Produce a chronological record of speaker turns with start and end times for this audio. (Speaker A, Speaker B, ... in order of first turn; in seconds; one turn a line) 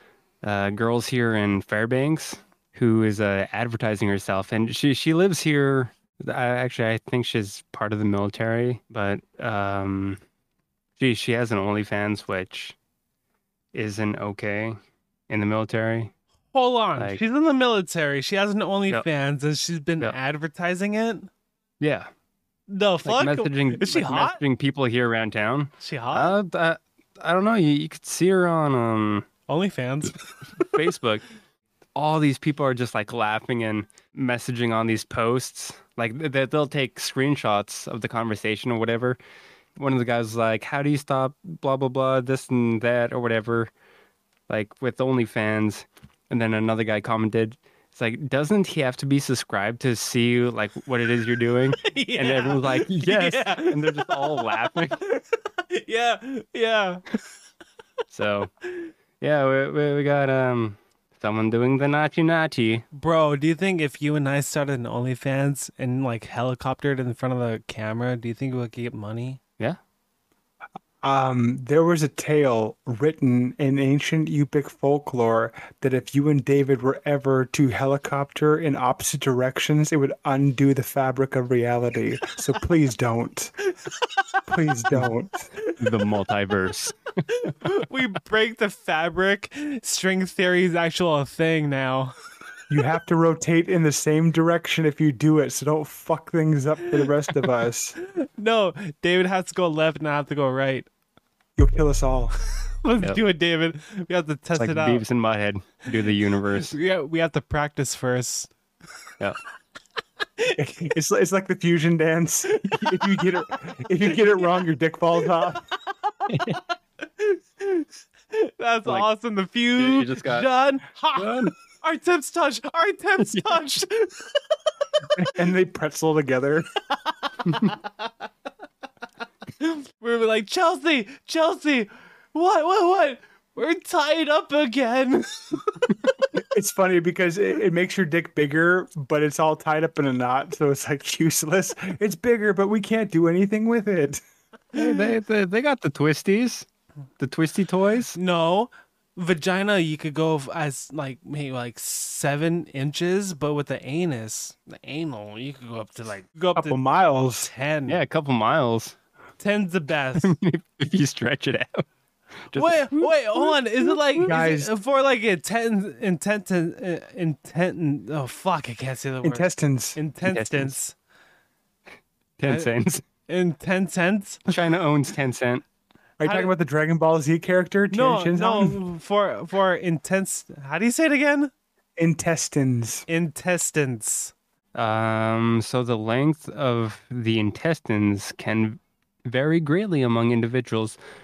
Speaker A: 0.4-10.2
Speaker A: 11.0-12.8
Speaker A: 13.7-14.8
Speaker A: 15.3-16.1
Speaker B: 16.5-21.3
Speaker A: 21.8-22.1
Speaker B: 22.7-24.4
Speaker A: 23.0-29.3
Speaker B: 25.8-26.3
Speaker B: 29.5-30.1
Speaker A: 30.6-31.2
Speaker A: 31.9-39.2
Speaker A: 39.8-43.7
Speaker A: 44.5-55.0
Speaker B: 51.8-57.1
Speaker A: 58.1-58.5
Speaker A: 59.2-62.8
Speaker B: 62.9-69.4
Speaker C: 71.0-83.5
Speaker C: 84.5-85.5
Speaker A: 85.8-87.1
Speaker B: 87.3-92.1
Speaker C: 92.7-98.0
Speaker B: 98.0-100.9
Speaker C: 101.6-102.3
Speaker B: 102.8-105.0
Speaker A: 104.5-106.8
Speaker B: 106.6-108.5
Speaker C: 110.6-115.6
Speaker B: 112.5-113.4
Speaker B: 116.1-124.3
Speaker A: 116.3-116.6
Speaker A: 119.8-120.5
Speaker A: 121.1-121.5
Speaker A: 123.2-123.6
Speaker C: 125.2-126.7
Speaker B: 127.0-127.7
Speaker A: 127.4-127.8
Speaker B: 129.6-135.8
Speaker C: 136.3-144.2
Speaker B: 144.7-145.0
Speaker A: 144.7-146.7
Speaker A: 147.2-148.2
Speaker B: 148.1-156.8
Speaker C: 156.5-157.5
Speaker B: 157.4-158.0
Speaker A: 157.9-158.9
Speaker B: 159.4-160.3
Speaker A: 160.2-161.8
Speaker A: 162.5-164.2
Speaker B: 162.5-170.9
Speaker C: 164.2-164.7
Speaker C: 169.2-170.0
Speaker A: 170.2-170.8
Speaker A: 172.4-173.0
Speaker B: 173.3-174.4
Speaker A: 174.5-175.6
Speaker C: 176.2-178.8
Speaker B: 176.2-176.5
Speaker B: 177.9-181.5
Speaker C: 182.0-183.0
Speaker B: 183.1-184.3
Speaker A: 184.8-191.0